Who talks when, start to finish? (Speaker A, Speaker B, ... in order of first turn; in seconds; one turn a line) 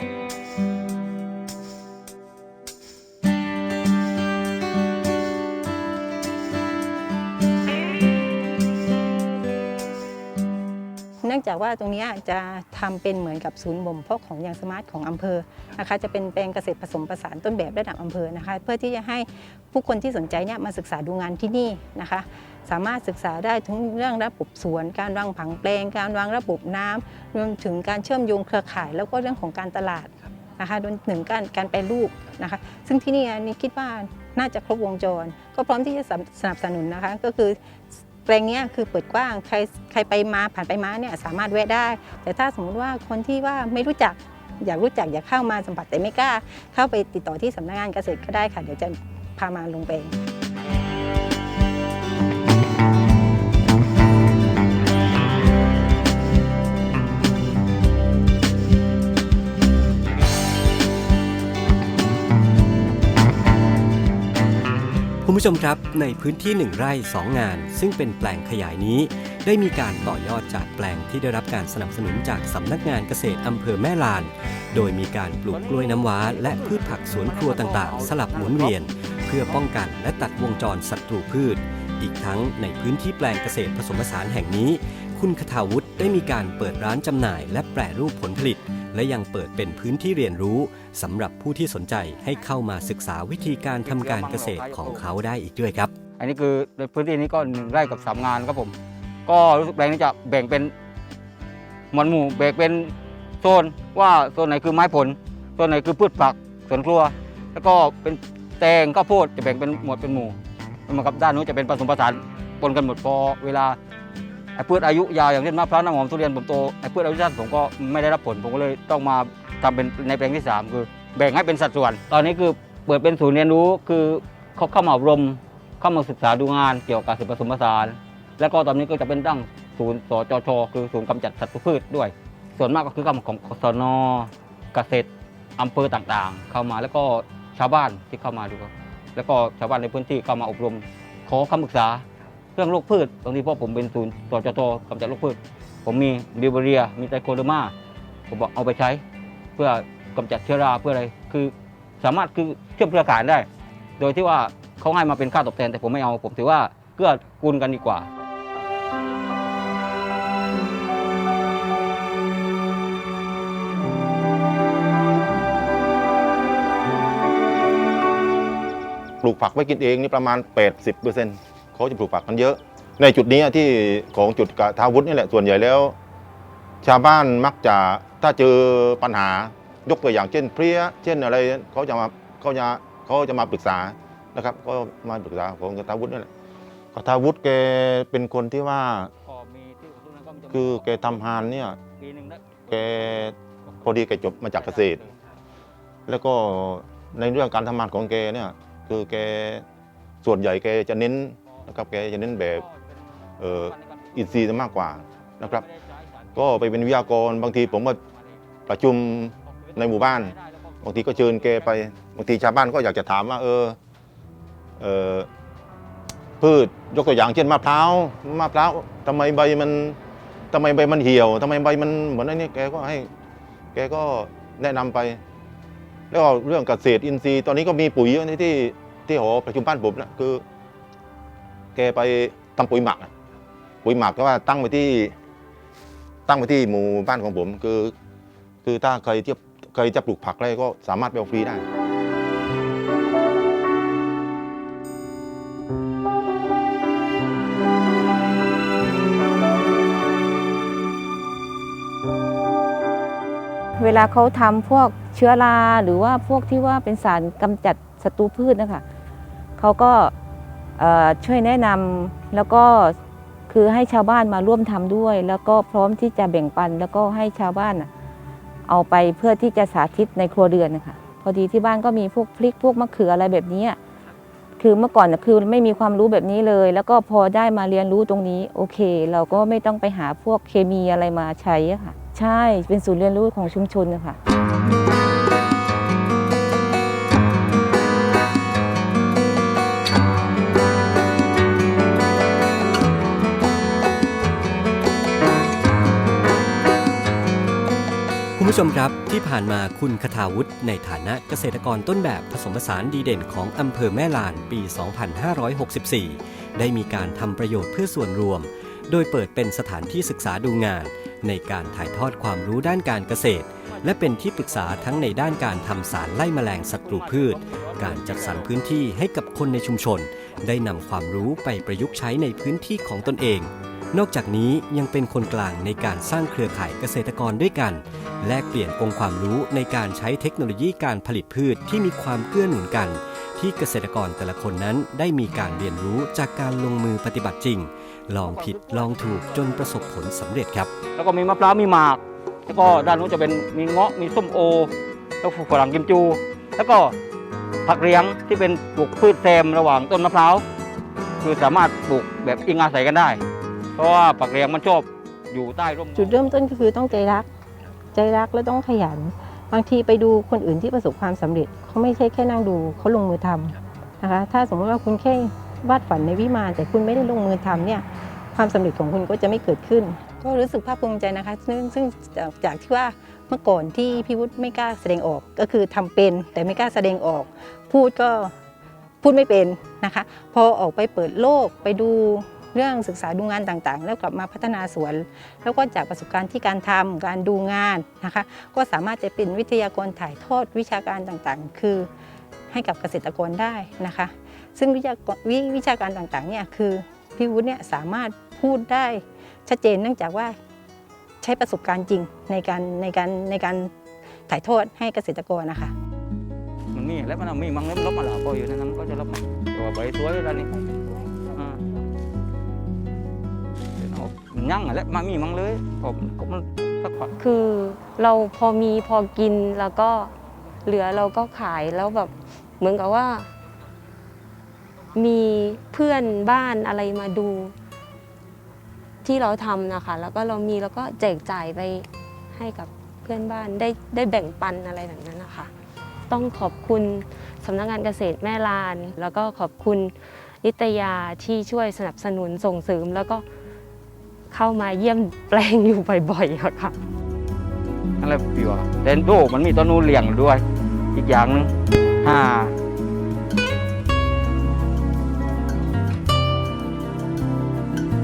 Speaker A: 11.2-50.1
Speaker B: 65.2-95.9
Speaker C: 75.5-78.8
Speaker C: 93.8-95.0
Speaker C: 96.2-98.7
Speaker C: 99.3-100.7
Speaker C: 101.9-113.8
Speaker C: 114.6-142.1
Speaker C: 142.6-147.7
Speaker C: 148.3-149.0
Speaker C: 149.6-153.5
Speaker C: 154.0-158.1
Speaker D: 169.2-175.9
Speaker D: 176.8-186.3
Speaker D: 186.9-189.1
Speaker C: 189.2-191.3
Speaker D: 190.5-191.8
Speaker C: 192.0-193.1
Speaker D: 192.7-195.0
Speaker C: 194.6-195.1
Speaker D: 196.1-199.6
Speaker D: 200.2-202.6
Speaker C: 201.6-204.2
Speaker D: 203.4-205.6
Speaker C: 205.4-206.6
Speaker D: 206.4-208.0
Speaker D: 208.7-213.8
Speaker C: 209.6-211.8
Speaker D: 214.8-215.3
Speaker D: 216.4-220.0
Speaker D: 220.5-223.1
Speaker D: 223.7-225.2
Speaker D: 226.1-230.4
Speaker D: 231.8-233.1
Speaker D: 233.8-235.1
Speaker D: 236.3-237.9
Speaker D: 238.6-241.6
Speaker E: 253.8-258.8
Speaker E: 259.6-260.1
Speaker E: 260.8-262.9
Speaker E: 263.5-267.9
Speaker E: 268.7-273.8
Speaker E: 274.6-284.2
Speaker B: 298.4-340.7
Speaker C: 313.9-315.0
Speaker C: 316.8-318.5
Speaker C: 338.2-339.9
Speaker C: 340.9-344.7
Speaker C: 345.2-346.9
Speaker C: 347.6-350.4
Speaker C: 351.2-353.2
Speaker C: 353.8-356.3
Speaker A: 355.9-357.3
Speaker A: 357.9-378.3
Speaker A: 379.0-391.9
Speaker A: 392.5-400.4
Speaker A: 401.2-403.7
Speaker A: 404.3-405.7
Speaker C: 406.7-410.6
Speaker C: 411.3-411.6
Speaker C: 413.8-417.1
Speaker F: 417.2-420.1
Speaker F: 420.6-423.3
Speaker F: 424.9-427.6
Speaker F: 429.0-435.5
Speaker F: 436.1-443.2
Speaker F: 444.3-446.8
Speaker C: 448.0-450.4
Speaker C: 450.9-451.5
Speaker C: 452.0-452.6